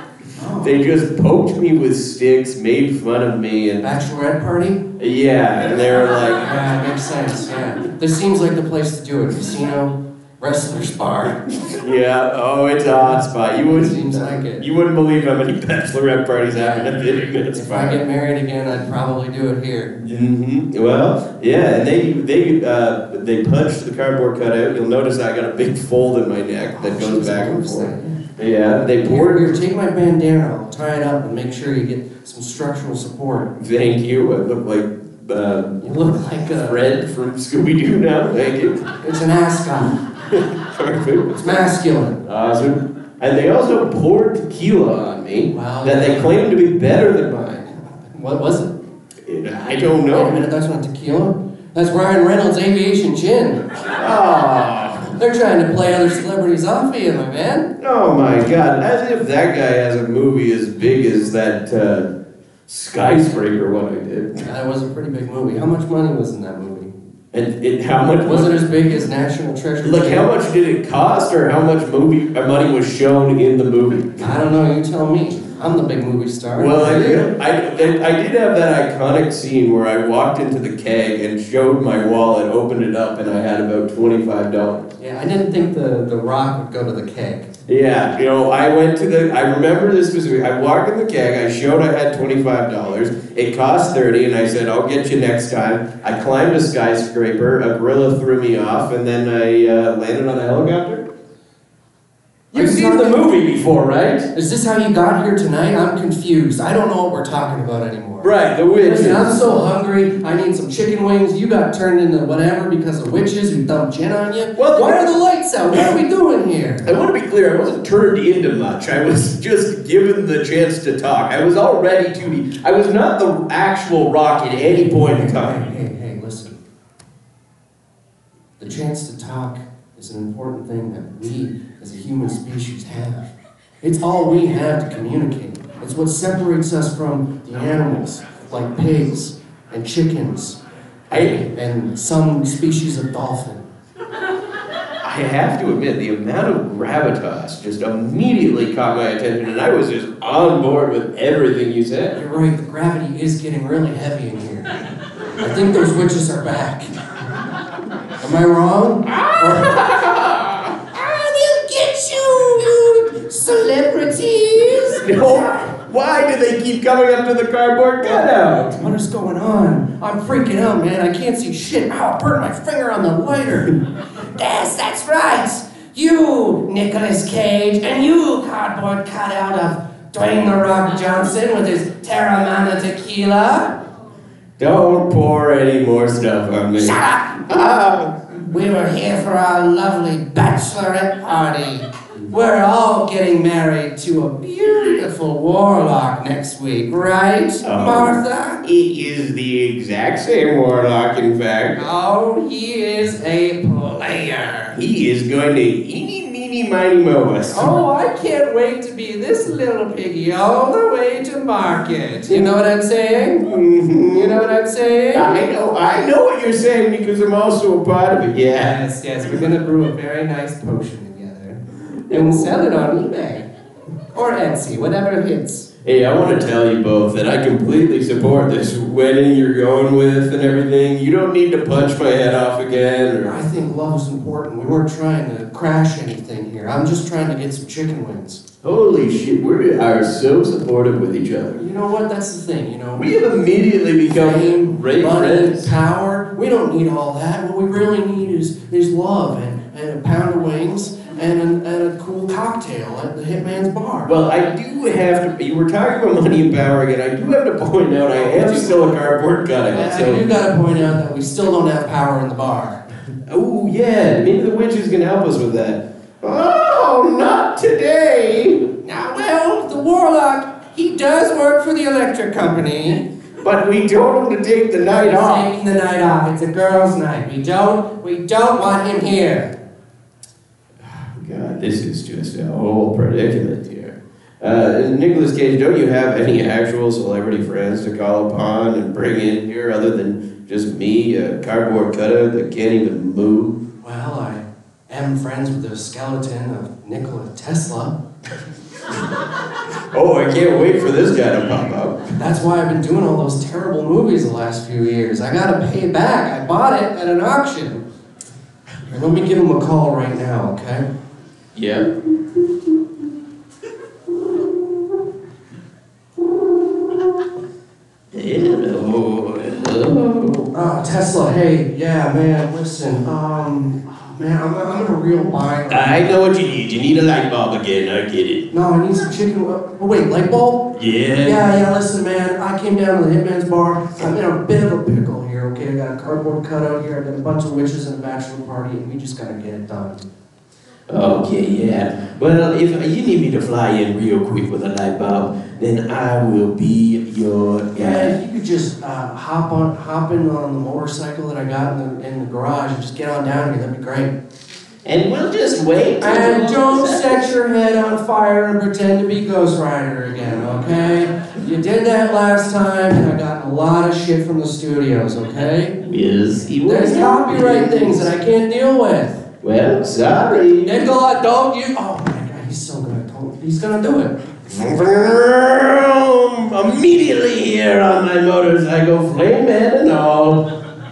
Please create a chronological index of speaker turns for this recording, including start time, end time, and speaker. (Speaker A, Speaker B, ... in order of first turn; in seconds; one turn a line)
Speaker A: 0.4-0.7
Speaker B: 0.6-3.9
Speaker A: 3.8-4.8
Speaker B: 5.0-6.7
Speaker A: 6.0-11.5
Speaker B: 11.6-18.0
Speaker A: 13.7-14.7
Speaker A: 17.5-19.9
Speaker B: 20.0-29.6
Speaker A: 26.8-28.2
Speaker A: 29.0-33.5
Speaker B: 33.6-35.9
Speaker A: 35.8-36.8
Speaker B: 36.5-38.9
Speaker A: 39.0-40.0
Speaker B: 40.2-41.6
Speaker A: 41.3-42.2
Speaker B: 42.2-47.8
Speaker A: 45.5-46.4
Speaker A: 47.9-48.8
Speaker B: 49.2-50.4
Speaker A: 50.1-53.6
Speaker B: 53.9-55.1
Speaker A: 55.2-57.7
Speaker B: 57.8-62.1
Speaker B: 62.7-64.5
Speaker A: 64.5-66.9
Speaker B: 67.3-68.7
Speaker A: 68.2-70.3
Speaker B: 69.8-74.3
Speaker A: 74.2-77.3
Speaker B: 76.5-84.9
Speaker A: 85.0-87.5
Speaker B: 87.7-101.1
Speaker B: 102.5-104.3
Speaker A: 102.5-103.3
Speaker A: 104.3-108.3
Speaker B: 108.2-109.5
Speaker A: 108.8-116.9
Speaker B: 114.6-115.1
Speaker B: 116.8-125.7
Speaker A: 125.0-126.6
Speaker A: 128.6-133.3
Speaker A: 133.8-140.6
Speaker B: 141.1-141.4
Speaker A: 141.1-143.7
Speaker B: 145.0-152.2
Speaker A: 152.2-154.8
Speaker A: 155.4-156.9
Speaker A: 158.2-159.9
Speaker B: 159.1-160.8
Speaker A: 160.9-165.2
Speaker B: 164.9-168.9
Speaker A: 168.0-183.8
Speaker B: 184.6-188.4
Speaker A: 186.8-187.4
Speaker A: 188.5-198.6
Speaker B: 197.6-201.9
Speaker A: 201.8-204.8
Speaker B: 204.7-207.7
Speaker A: 207.5-213.5
Speaker B: 213.4-214.5
Speaker A: 214.1-215.4
Speaker B: 215.1-218.8
Speaker A: 218.6-223.5
Speaker B: 222.1-222.5
Speaker A: 224.1-225.7
Speaker B: 225.8-233.5
Speaker A: 233.2-238.4
Speaker B: 238.6-241.7
Speaker A: 241.6-243.1
Speaker B: 242.9-245.8
Speaker A: 244.1-254.1
Speaker B: 254.1-260.3
Speaker A: 258.2-258.8
Speaker A: 259.7-262.8
Speaker B: 263.3-268.7
Speaker A: 268.8-273.1
Speaker B: 273.4-275.5
Speaker A: 275.0-279.5
Speaker B: 280.8-293.6
Speaker A: 293.8-298.0
Speaker B: 299.9-302.1
Speaker A: 302.2-307.8
Speaker A: 308.9-310.9
Speaker B: 311.5-311.9
Speaker B: 318.1-320.5
Speaker A: 320.5-326.2
Speaker B: 325.7-328.5
Speaker A: 328.5-340.0
Speaker B: 330.7-331.5
Speaker B: 340.9-348.2
Speaker A: 347.8-354.1
Speaker B: 354.9-357.3
Speaker A: 356.0-365.8
Speaker B: 365.8-368.1
Speaker A: 366.6-369.2
Speaker B: 369.4-370.9
Speaker A: 370.3-374.2
Speaker B: 374.5-380.5